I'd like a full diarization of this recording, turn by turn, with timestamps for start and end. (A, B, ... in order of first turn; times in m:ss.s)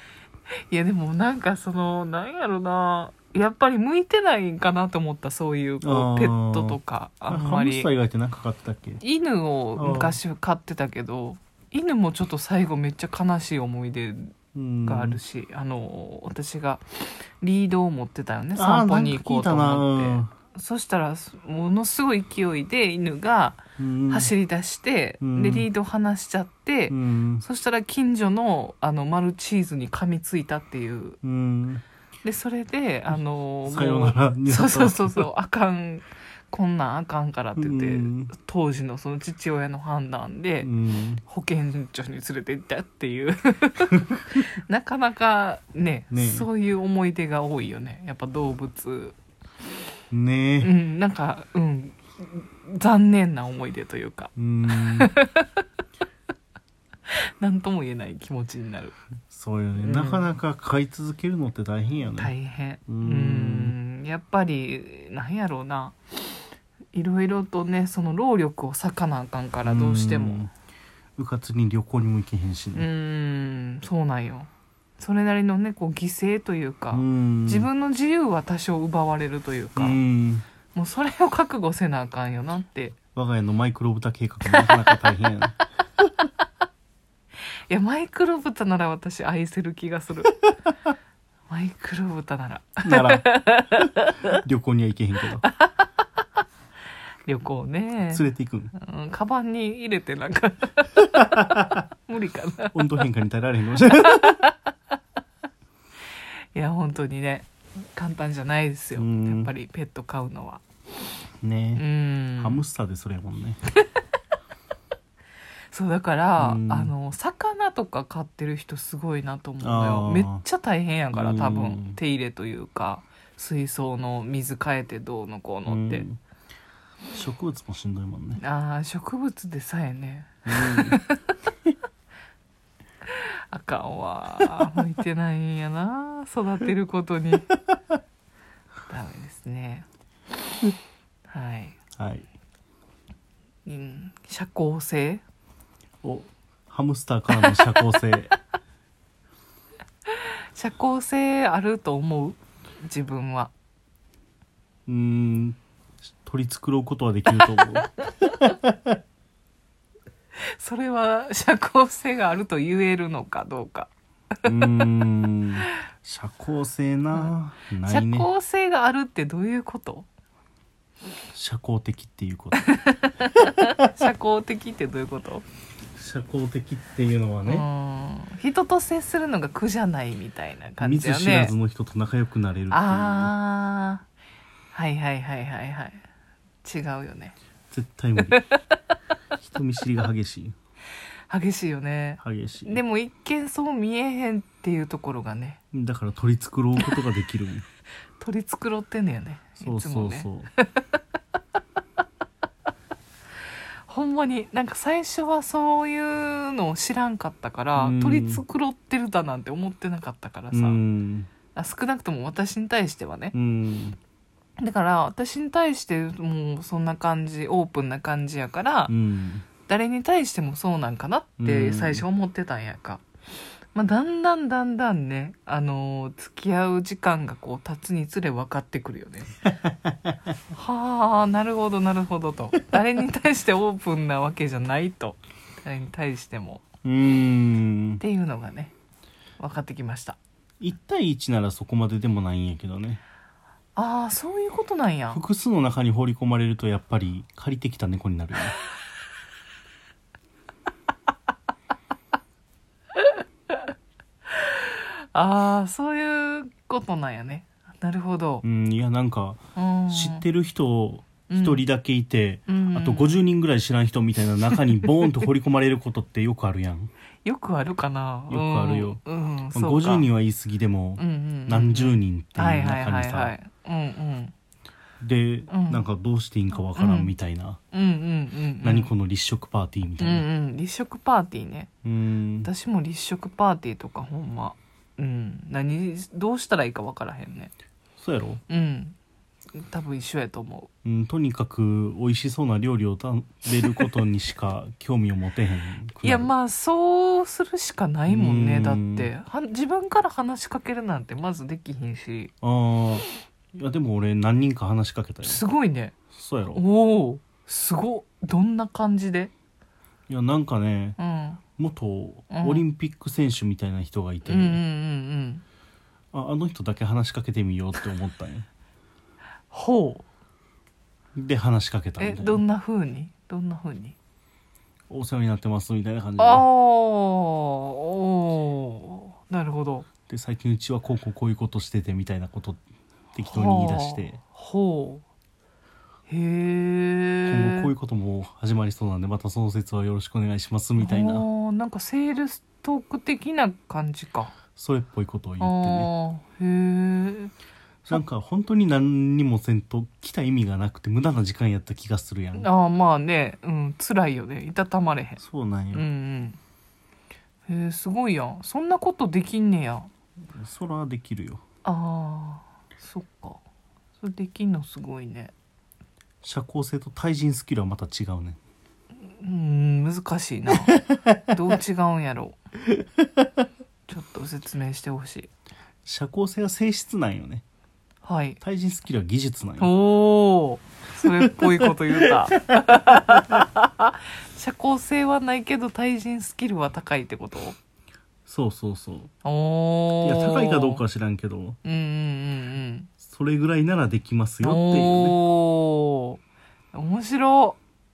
0:00.7-0:07.9 A
0:05.8-0:09.0 B
0:09.0-0:14.4 A
0:09.8-0:10.2 B
0:14.6-0:15.2 B
0:14.9-0:31.2 A
0:18.6-0:20.3 B
0:23.8-0:24.3 B
0:25.2-0:25.7 B
0:26.9-0:27.4 B
0:31.2-0:31.8 B
0:32.2-0:40.7 A
0:33.7-0:35.3 B
0:37.6-0:38.3 B
0:40.6-0:41.2 B
0:41.2-0:49.2 A
0:46.1-0:46.5 B
0:50.1-0:50.7 B
0:50.6-0:55.6 A
0:54.4-0:55.1 B
0:57.1-0:59.0 A
0:59.3-1:02.3 B
0:59.8-1:00.3 A
1:02.2-1:06.2 A
1:02.9-1:03.8 B
1:06.9-1:10.5 A
1:09.6-1:10.5 B
1:11.2-1:12.9 B
1:12.8-1:20.0 A
1:16.9-1:17.7 B
1:19.8-1:20.5 B
1:20.7-1:23.0 A
1:23.2-1:25.6 B
1:24.5-1:25.1 A
1:27.7-1:30.4 A
1:31.5-1:34.4 A
1:32.8-1:33.4 B
1:34.3-1:35.5 B
1:37.3-1:43.0 A
1:38.1-1:38.7 B
1:41.2-1:41.8 B
1:42.7-1:44.4 B
1:44.0-1:44.6 A
1:46.5-1:50.6 A
1:48.9-1:49.5 B
1:51.4-1:51.8 B
1:51.8-1:52.6 A
1:52.4-1:53.6 B
1:55.7-2:06.1 A
1:56.4-1:56.9 B
1:59.6-2:00.4 B
2:01.1-2:02.0 B
2:05.7-2:06.2 B
2:07.1-2:08.4 B
2:08.4-2:11.2 A
2:10.5-2:11.0 B
2:13.1-2:17.5 A
2:18.9-2:19.9 A
2:21.3-2:21.8 A
2:22.0-2:22.3 B
2:23.7-2:25.2 A
2:26.0-2:28.3 B
2:30.5-2:33.5 A
2:34.9-2:37.9 B
2:38.5-2:39.0 B
2:40.6-2:43.9 A
2:44.4-2:48.3 B
2:47.9-2:50.1 A
2:51.3-2:52.7 B
2:52.7-2:55.4 A
2:56.0-2:57.7 B
2:57.5-3:01.6 A
3:00.8-3:03.3 B
3:02.7-3:04.0 A
3:04.7-3:06.0 A
3:06.6-3:07.4 A
3:07.7-3:08.4 B
3:08.3-3:08.6 A
3:09.4-3:10.6 B
3:11.3-3:15.6 A
3:12.2-3:12.8 B
3:15.7-3:17.6 B
3:18.2-3:20.8 A
3:19.6-3:20.5 B
3:23.9-3:30.8 A
3:27.8-3:28.4 B
3:30.5-3:31.3 B
3:31.5-3:33.3 A
3:33.3-3:34.0 B
3:34.6-3:38.9 A
3:38.9-3:39.5 B
3:39.7-3:43.0 A
3:41.4-3:42.0 B
3:43.7-3:49.4 A
3:49.6-3:50.1 B
3:50.5-3:56.6 A
3:56.8-3:58.0 B
3:58.0-3:58.7 A
3:59.4-4:00.2 A
4:00.6-4:03.0 B
4:03.8-4:05.2 A
4:05.1-4:08.6 B
4:13.0-4:13.6 A
4:14.3-4:18.4 A
4:18.4-4:26.9 B
4:19.6-4:20.2 A
4:21.3-4:21.6 A
4:22.5-4:23.2 A
4:27.2-4:30.1 A
4:28.3-4:33.4 B
4:31.0-4:34.3 A
4:35.0-4:37.6 B
4:35.5-4:35.8 A
4:36.7-4:37.1 A
4:37.7-4:38.9 A
4:38.6-4:40.3 B
4:40.0-4:41.7 A
4:41.8-4:42.5 B
4:42.4-4:47.5 A
4:48.0-4:48.4 B
4:48.5-4:49.0 A
4:49.6-4:50.7 A
4:50.8-4:56.3 B
4:56.0-5:02.3 A
4:58.1-4:59.1 B
5:02.4-5:05.4 B
5:05.2-5:06.0 A
5:06.1-5:06.6 B
5:06.6-5:09.3 A
5:10.1-5:11.0 B
5:11.0-5:11.4 A
5:11.6-5:14.6 B
5:12.3-5:12.6 A
5:14.2-5:15.4 A
5:16.1-5:18.5 B
5:19.5-5:20.0 A
5:21.2-5:22.4 B
5:22.0-5:24.0 A
5:24.9-5:26.5 B
5:26.2-5:29.9 A
5:30.1-5:32.6 B
5:33.1-5:34.2 B
5:33.3-5:35.0 A
5:36.1-5:37.7 A
5:37.3-5:41.3 B
5:40.8-5:44.3 A
5:44.6-5:45.9 B
5:45.4-5:47.3 A
5:47.9-5:52.5 B
5:52.4-5:55.2 A
5:55.2-5:55.9 B
5:55.7-5:56.4 A
5:57.5-5:59.9 A
6:00.3-6:01.4 B
6:01.6-6:03.4 A
6:04.0-6:05.3 A
6:06.2-6:08.4 B
6:09.1-6:12.4 A
6:10.7-6:11.0 B
6:13.9-6:15.3 A
6:15.9-6:17.4 B
6:18.0-6:18.4 A
6:18.4-6:19.7 B
6:19.6-6:27.6 A
6:21.3-6:23.0 B
6:28.3-6:29.1 B
6:29.2-6:30.8 A
6:30.0-6:31.6 B
6:31.6-6:32.9 A
6:33.0-6:35.2 B
6:34.4-6:36.2 A
6:36.7-6:37.6 A